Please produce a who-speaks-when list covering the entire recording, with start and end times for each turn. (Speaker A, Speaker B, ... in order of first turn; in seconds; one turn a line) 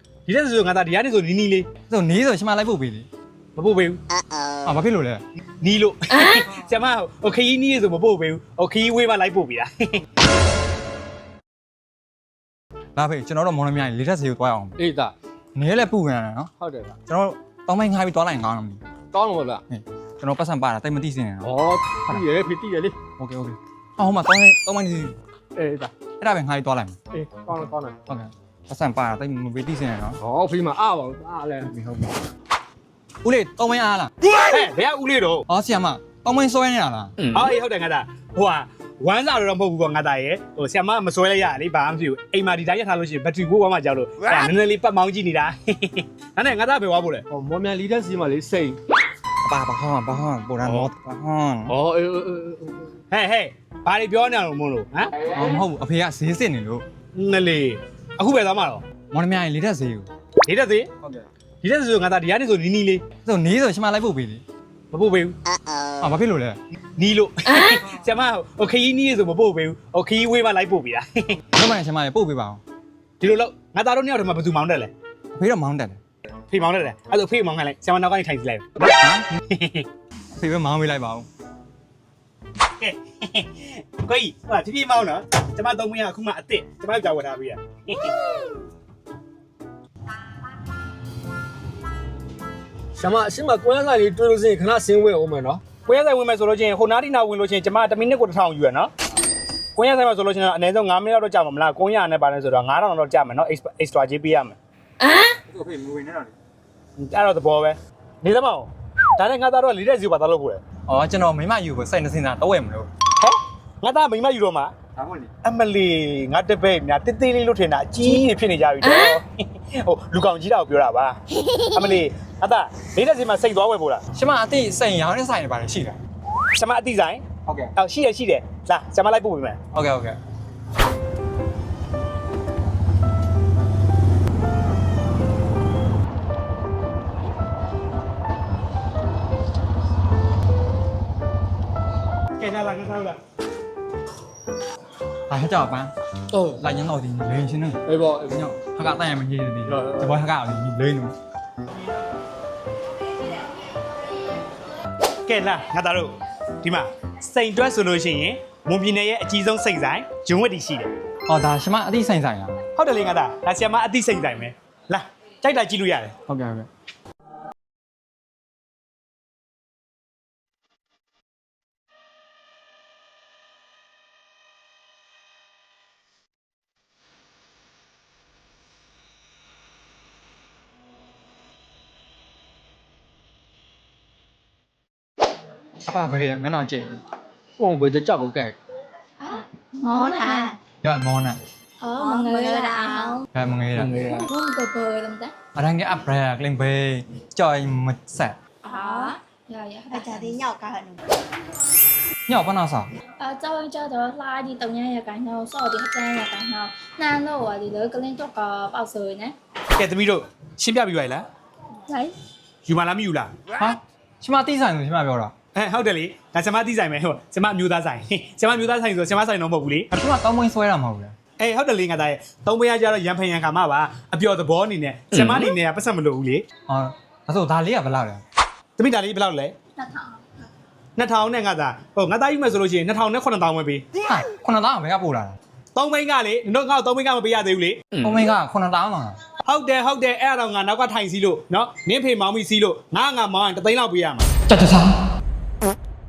Speaker A: 0.3-1.7
Speaker B: 1.9-3.1
Speaker A: 3.6-4.0
Speaker B: 4.7-5.2
Speaker A: 5.6-10.0
Speaker B: 13.0-14.8
Speaker C: 14.8-15.2
Speaker B: 15.6-16.5
Speaker C: 16.6-17.0
Speaker B: 17.1-18.8
Speaker C: 19.1-19.6
Speaker B: 19.7-21.5
Speaker C: 21.4-23.0
Speaker B: 23.2-25.2
Speaker C: 25.6-25.9
Speaker B: 26.2-27.0
Speaker C: 27.1-28.0
Speaker B: 28.1-30.2
Speaker C: 30.2-32.1
Speaker B: 33.2-34.1
Speaker A: 34.4-35.5
Speaker B: 35.5-37.1
Speaker A: 37.3-47.2
Speaker C: 47.3-48.8
Speaker B: 49.4-51.8
Speaker C: 51.7-52.9
Speaker A: 53.1-55.1
Speaker B: 55.3-56.9
Speaker A: 57.1-58.8
Speaker B: 59.1-60.1
Speaker A: 60.5-60.9
Speaker A: 61.6-63.0
Speaker B: 63.2-64.4
Speaker A: 64.9-65.3
Speaker B: 66.0-66.6
Speaker A: 67.0-71.4
Speaker B: 71.5-72.6
Speaker A: 73.2-74.9
Speaker B: 75.4-76.0
Speaker A: 76.5-78.8
Speaker B: 78.9-79.4
Speaker A: 79.5-79.9
Speaker B: 80.3-81.3
Speaker A: 82.8-88.1
Speaker C: 93.0-95.6
Speaker A: 95.8-98.9
Speaker A: 99.8-104.6
Speaker B: 105.5-106.3
Speaker A: 107.0-110.6
Speaker B: 110.9-112.9
Speaker A: 113.2-114.7
Speaker B: 115.0-115.3
Speaker A: 115.4-124.0
Speaker B: 124.2-126.0
Speaker A: 126.5-127.2
Speaker B: 127.5-127.7
Speaker A: 127.8-129.6
Speaker B: 129.7-130.2
Speaker A: 142.4-143.2
Speaker B: 145.3-145.9
Speaker C: 146.3-146.6
Speaker B: 146.6-151.2
Speaker C: 147.9-148.3
Speaker C: 149.7-150.1
Speaker A: 155.3-160.9
Speaker B: 161.3-162.6
Speaker A: 162.7-166.2
Speaker B: 166.3-166.7
Speaker B: 185.8-187.0
Speaker C: 187.6-188.6
Speaker D: 189.2-190.6
Speaker E: 189.9-190.6
Speaker B: 190.8-191.4
Speaker D: 191.8-193.3
Speaker E: 192.0-193.2
Speaker B: 193.3-194.0
Speaker C: 193.8-194.3
Speaker D: 194.1-195.3
Speaker B: 195.6-198.4
Speaker D: 198.6-200.3
Speaker E: 198.7-199.2
Speaker E: 199.9-201.0
Speaker B: 202.3-202.9
Speaker D: 203.2-209.4
Speaker A: 209.8-211.3
Speaker D: 211.9-212.2
Speaker A: 212.7-213.4
Speaker B: 213.6-215.3
Speaker A: 215.5-219.9
Speaker B: 219.9-221.2
Speaker A: 221.4-226.4
Speaker B: 226.7-228.2
Speaker A: 228.8-229.6
Speaker D: 229.8-230.2
Speaker A: 231.0-233.8
Speaker B: 234.0-235.4
Speaker A: 235.8-238.0
Speaker B: 238.0-239.2
Speaker A: 239.4-244.3
Speaker B: 244.5-244.9